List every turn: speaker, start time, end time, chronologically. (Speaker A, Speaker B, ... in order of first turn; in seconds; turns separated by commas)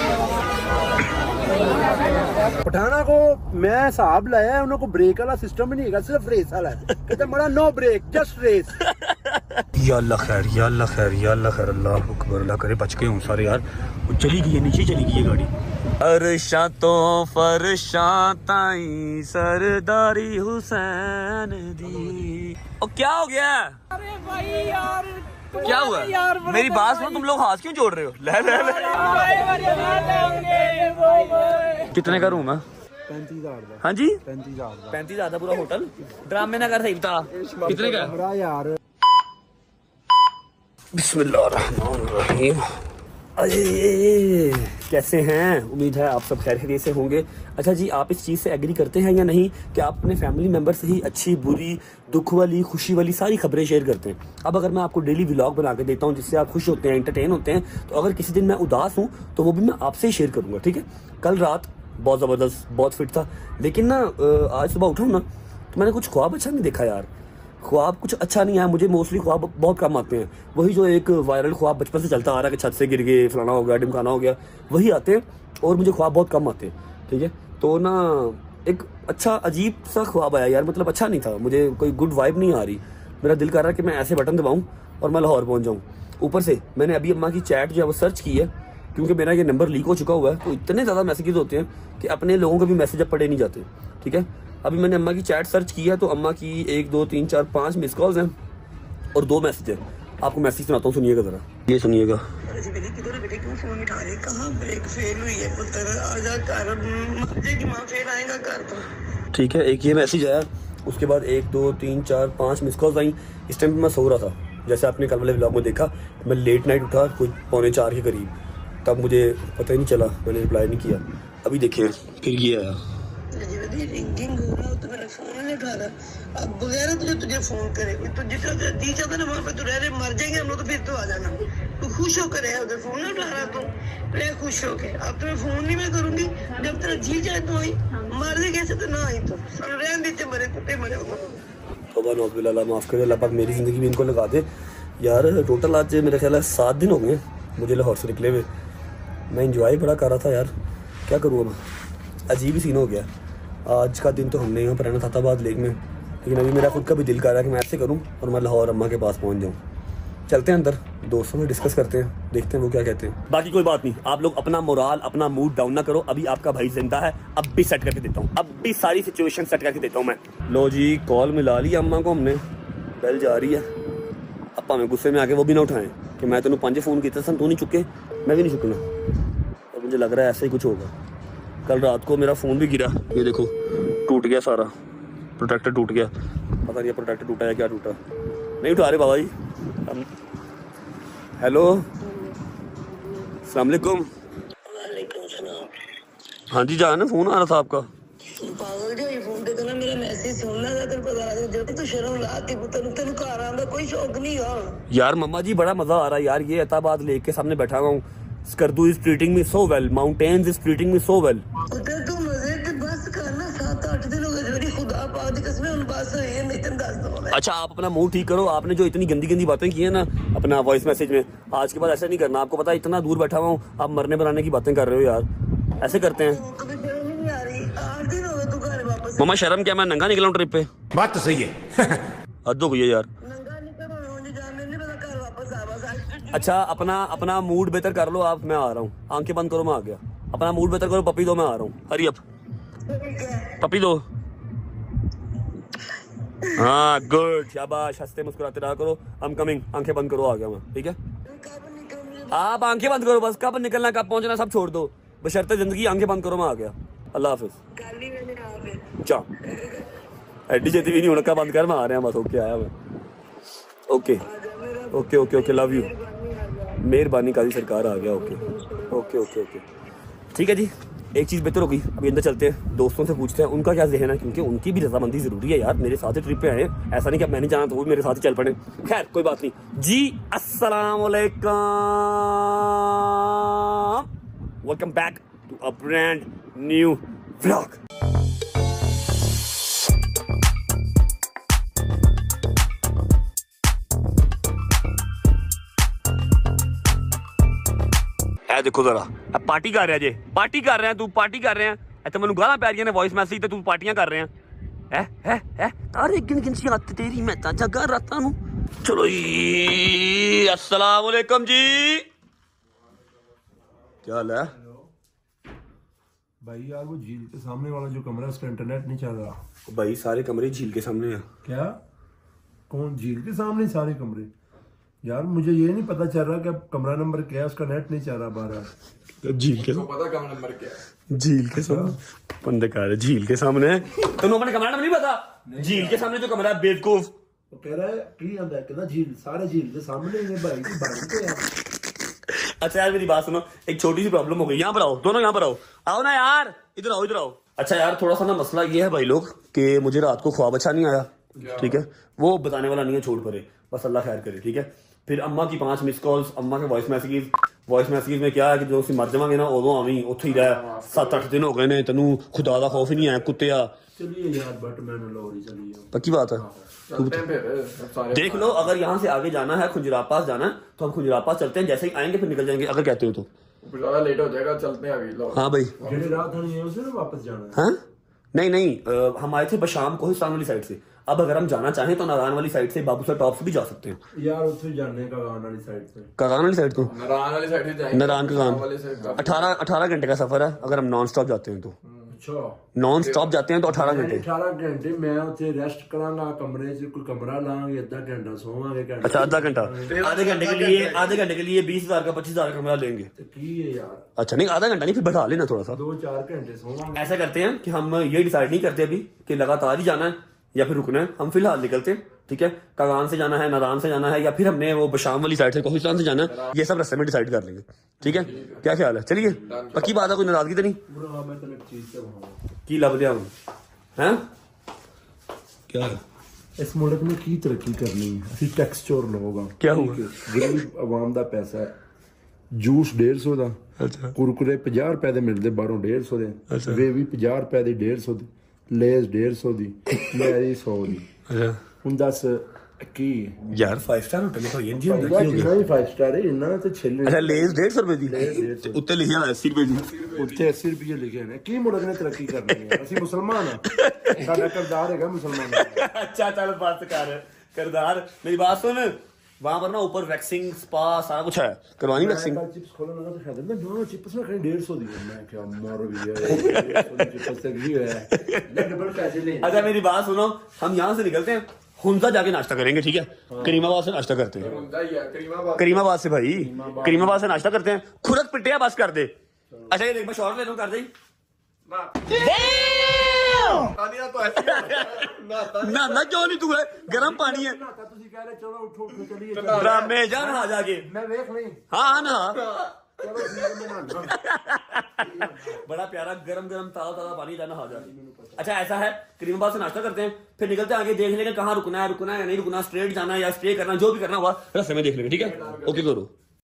Speaker A: 2.6-8.8, Speaker B: 6.9-7.2, Speaker B: 8.9-23.8, Speaker C: 23.9-26.9, Speaker B: 25.5-30.6, Speaker C: 29.6-31.8, Speaker B: 31.9-32.6, Speaker A: 32.0-32.5, Speaker A: 33.1-35.0, Speaker B: 33.8-34.2, Speaker B: 34.9-38.1, Speaker D: 37.3-38.1, Speaker A: 37.6-38.8, Speaker B: 40.9-42.8, Speaker B: 43.4-67.1, Speaker B: 67.6-98.3, Speaker B: 99.1-102.3, Speaker E: 102.4-108.9, Speaker B: 109.3-118.3, Speaker B: 118.8-122.8, Speaker E: 123.3-141.4, Speaker B: 141.9-144.5, Speaker B: 145.0-148.5, Speaker B: 149.3-150.5, Speaker B: 151.1-151.6, Speaker B: 152.3-153.1, Speaker B: 153.7-159.6, Speaker B: 160.3-172.4, Speaker B: 173.0-173.7, Speaker B: 174.6-178.8, Speaker B: 179.7-180.9, Speaker B: 181.7-184.7, Speaker B: 185.4-186.1, Speaker B: 186.6-188.0, Speaker B: 188.6-189.3, Speaker B: 191.4-191.9, Speaker E: 192.1-192.3, Speaker B: 193.4-194.1, Speaker E: 194.7-195.7, Speaker B: 196.5-197.9, Speaker E: 198.3-204.8, Speaker B: 204.9-211.4, Speaker E: 211.7-217.3, Speaker B: 217.3-225.3, Speaker B: 225.8-226.4, Speaker E: 225.8-229.5, Speaker B: 229.2-230.7, Speaker A: 231.0-231.7, Speaker B: 232.4-233.1, Speaker E: 233.2-236.4, Speaker B: 236.3-242.2, Speaker E: 242.9-243.6, Speaker B: 243.6-244.1, Speaker B: 246.5-251.0, Speaker E: 251.3-252.6, Speaker B: 252.3-257.6, Speaker E: 257.7-259.9, Speaker B: 259.0-259.3, Speaker B: 260.5-262.7, Speaker E: 260.9-261.4, Speaker B: 263.9-264.2, Speaker E: 264.2-266.8, Speaker B: 264.9-265.9, Speaker B: 266.8-269.6, Speaker E: 268.0-269.1, Speaker B: 270.3-284.1, Speaker B: 284.6-287.8, Speaker B: 298.5-304.3, Speaker B: 304.9-312.1, Speaker B: 314.0-314.5, Speaker A: 316.4-319.4, Speaker B: 319.7-321.3, Speaker A: 321.4-321.8, Speaker A: 322.7-324.3, Speaker A: 325.0-328.7, Speaker B: 329.2-329.8, Speaker D: 329.6-330.8, Speaker B: 331.1-337.1, Speaker A: 331.6-331.9, Speaker A: 335.5-336.1, Speaker A: 337.5-341.5, Speaker B: 342.3-363.7, Speaker D: 351.4-351.8, Speaker D: 360.3-361.3, Speaker A: 364.0-366.6, Speaker B: 365.9-366.4, Speaker D: 366.9-368.7, Speaker B: 368.1-373.3, Speaker D: 373.6-376.1, Speaker B: 375.3-375.7, Speaker A: 375.8-377.6, Speaker B: 377.5-377.8, Speaker B: 378.3-384.0, Speaker A: 384.1-386.1, Speaker B: 386.2-386.9, Speaker D: 386.9-389.6, Speaker B: 387.9-388.7, Speaker B: 389.2-391.8, Speaker A: 392.1-392.6, Speaker B: 392.8-394.3, Speaker D: 393.0-393.4, Speaker A: 393.7-400.0, Speaker B: 399.0-403.1, Speaker D: 399.9-401.1, Speaker A: 403.2-404.0, Speaker B: 404.2-405.8, Speaker A: 405.7-407.1, Speaker B: 406.9-420.8, Speaker D: 416.3-416.6, Speaker D: 418.1-418.6, Speaker A: 418.1-418.5, Speaker D: 419.2-419.9, Speaker A: 420.9-422.4, Speaker B: 422.7-423.3, Speaker B: 424.0-424.2, Speaker B: 425.7-426.0, Speaker A: 426.6-431.7, Speaker B: 429.6-430.1, Speaker A: 432.5-433.6, Speaker B: 433.8-434.1, Speaker A: 434.1-441.1, Speaker B: 436.5-436.8, Speaker B: 441.3-441.6, Speaker A: 441.8-443.4, Speaker B: 443.5-445.7, Speaker A: 444.8-448.9, Speaker B: 447.1-449.9, Speaker D: 449.9-450.4, Speaker A: 450.1-455.8, Speaker B: 452.5-453.0, Speaker B: 453.7-454.6, Speaker B: 455.4-462.4, Speaker A: 461.9-469.7, Speaker B: 466.2-467.3, Speaker B: 468.1-468.6, Speaker B: 469.4-474.6, Speaker A: 473.3-473.6, Speaker D: 474.4-475.9, Speaker B: 475.6-479.1, Speaker A: 476.4-477.3, Speaker B: 479.7-480.9, Speaker D: 481.7-482.7, Speaker B: 482.1-483.7, Speaker D: 483.5-486.1, Speaker B: 484.4-487.6, Speaker A: 486.8-491.6, Speaker D: 489.3-489.9, Speaker B: 489.5-490.9, Speaker B: 491.7-492.4, Speaker D: 492.4-492.8, Speaker A: 493.0-494.2, Speaker B: 494.0-506.1, Speaker A: 495.0-495.6, Speaker A: 497.7-498.4, Speaker D: 505.2-505.9